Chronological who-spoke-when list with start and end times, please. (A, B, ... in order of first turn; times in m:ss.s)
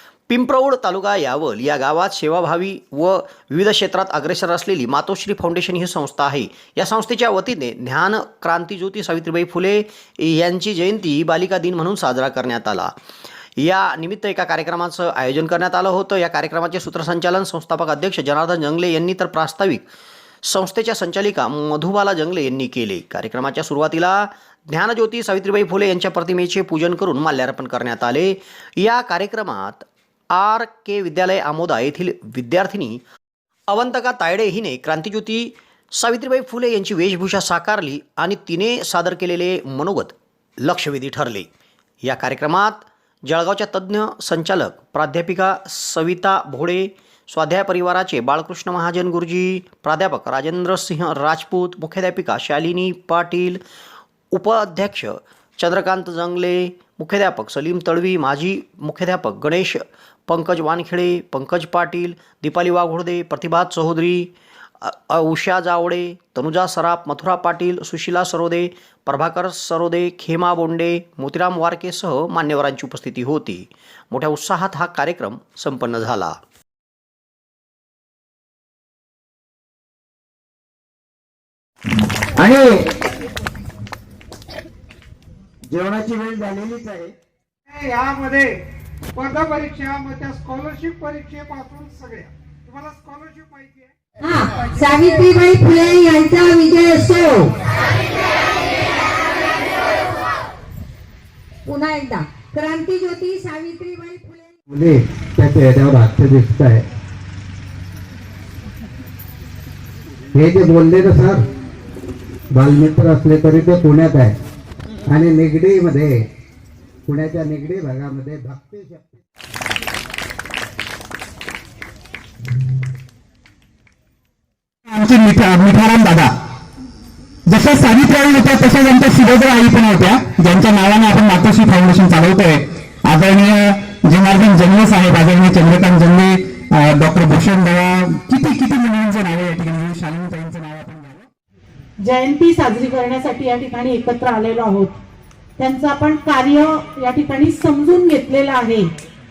0:00.3-0:12.9 A
0:13.6-0:19.8 A
0:20.4-0:33.0 A
0:33.7-0:41.5 A
0:42.0-0:53.6 A
0:54.3-1:16.4 A
1:27.7-1:28.6 B
1:29.2-1:33.9 B
1:34.2-1:37.5 C
1:41.7-1:44.6 C
1:44.7-1:46.8 D
1:50.3-1:51.4 D
1:52.5-1:54.4 D
1:55.1-1:56.3 D
1:57.0-1:59.2 D
2:04.9-2:06.3 E
2:07.5-2:21.3 E
2:22.0-2:25.0 F
2:25.6-2:28.9 F